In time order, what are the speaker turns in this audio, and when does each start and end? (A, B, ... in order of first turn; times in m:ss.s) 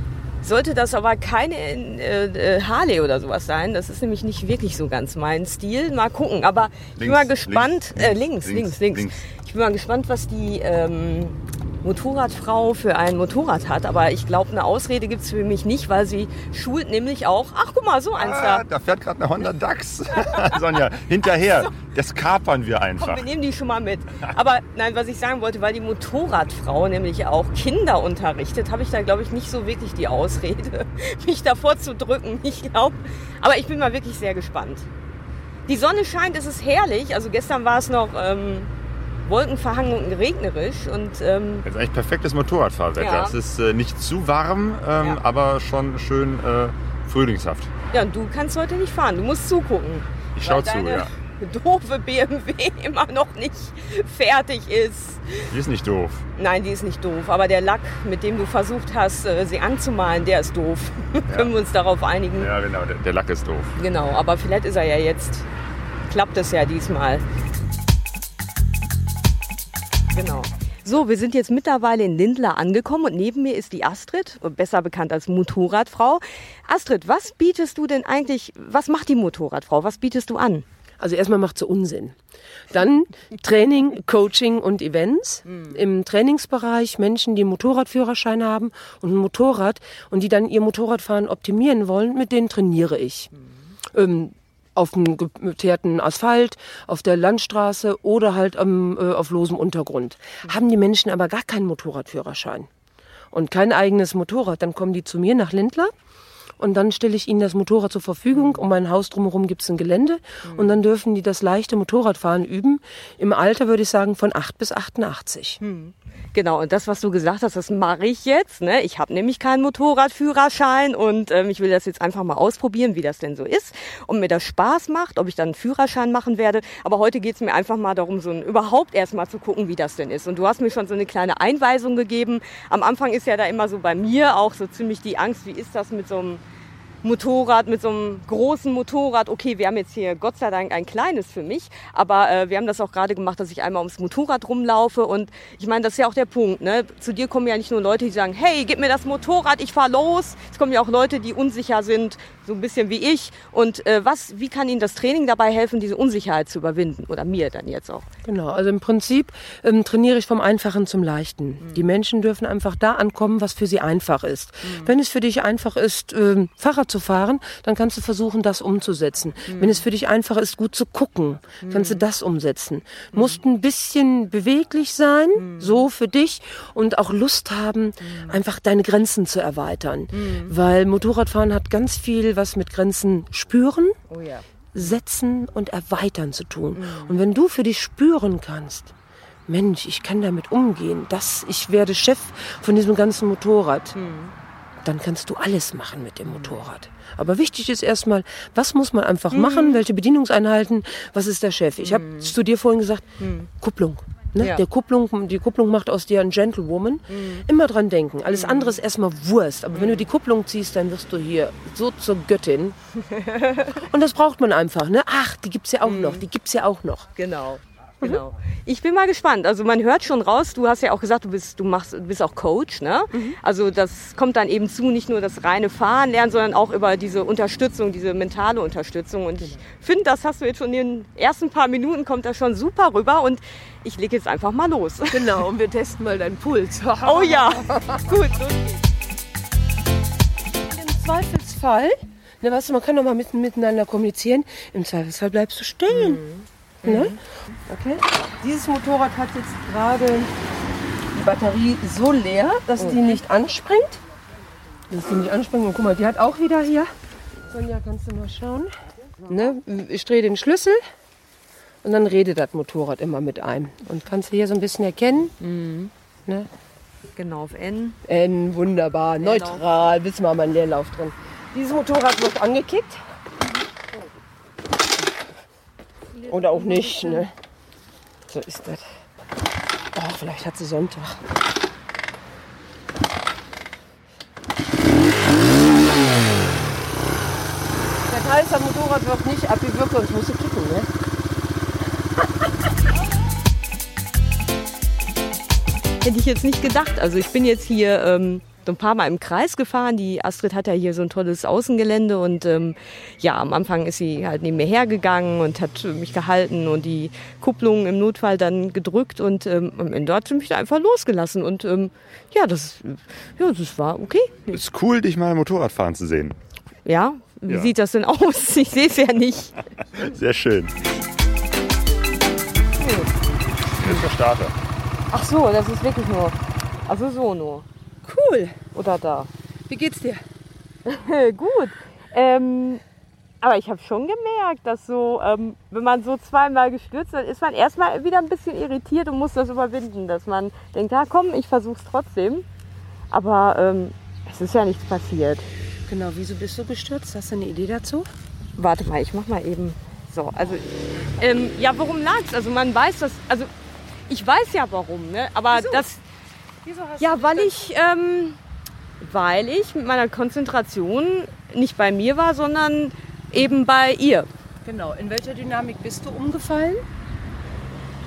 0:00.4-0:18.6 A
0:07.0-0:09.2 B
0:18.2-0:23.2 B
0:20.2-0:20.6 A
0:21.4-0:21.7 A
0:23.0-0:34.9 A
0:35.7-0:38.7 A
0:39.3-0:41.7 A
0:41.6-0:47.7 B
0:43.0-0:43.4 A
0:47.9-0:55.5 A
0:50.4-0:51.1 B
0:55.5-0:56.2 B
0:56.4-1:02.5 A
1:02.4-1:03.8 B
1:03.8-1:05.5 A
1:06.1-1:07.2 A
1:10.1-1:20.6 A
1:21.0-1:22.2 C
1:22.7-1:33.3 C
1:33.9-1:42.7 C
1:43.3-1:45.9 C
1:46.6-1:55.6 C
1:48.3-1:48.6 A
1:50.4-1:50.8 A
1:55.6-2:16.4 A
2:17.0-2:38.1 A
2:38.2-3:04.0 C
2:44.7-2:44.9 A
2:49.5-2:49.8 A
2:51.6-2:52.0 A
2:53.1-2:53.4 A
2:55.4-2:55.9 A
2:58.0-2:58.4 A
3:00.1-3:00.5 A
3:04.1-3:04.9 A
3:04.7-3:08.9 C
3:06.7-3:07.2 A
3:09.5-3:14.0 C
3:13.9-3:14.3 A
3:14.8-3:23.0 C
3:16.3-3:16.6 A
3:19.3-3:19.8 A
3:21.8-3:22.3 A
3:23.2-3:23.5 A
3:23.6-3:32.8 C
3:24.4-3:24.6 A
3:27.1-3:27.4 A
3:28.3-3:28.8 A
3:29.7-3:30.1 A
3:33.0-3:33.8 A
3:33.8-3:37.1 C
3:35.8-3:36.2 A
3:37.2-3:55.4 A
3:55.1-3:58.0 C
3:57.0-3:58.8 A
4:00.7-4:06.2 C
4:05.9-4:07.2 A
4:06.8-4:10.3 C
4:11.1-4:14.0 C
4:12.8-4:13.2 A
4:14.9-4:16.9 C
4:17.5-4:18.7 C
4:19.2-4:20.8 C
4:21.8-4:25.4 C
4:25.4-4:25.9 A
4:27.2-4:28.0 A
4:28.1-4:33.0 C
4:29.2-4:29.7 A
4:36.2-4:37.3 A
4:36.3-4:37.3 C
4:38.3-4:38.8 C
4:39.9-4:41.2 C
4:48.1-4:50.9 C
4:56.0-5:14.6 A
5:14.5-5:16.4 B
5:16.8-5:19.6 A
5:20.0-5:20.7 B
5:22.8-5:23.1 A
5:23.8-5:24.6 B
5:25.1-5:27.6 A
5:28.1-5:28.6 C
5:28.6-5:29.3 A
5:29.7-5:30.2 C
5:30.9-5:32.8 A
5:33.4-5:42.4 A
5:43.1-5:45.5 A
5:45.9-5:48.1 C
5:48.6-5:53.5 A
5:54.1-5:56.0 A
5:55.5-5:55.9 C
5:56.6-5:57.7 C
5:57.0-5:58.4 A
5:59.0-6:04.3 A
6:04.6-6:06.8 C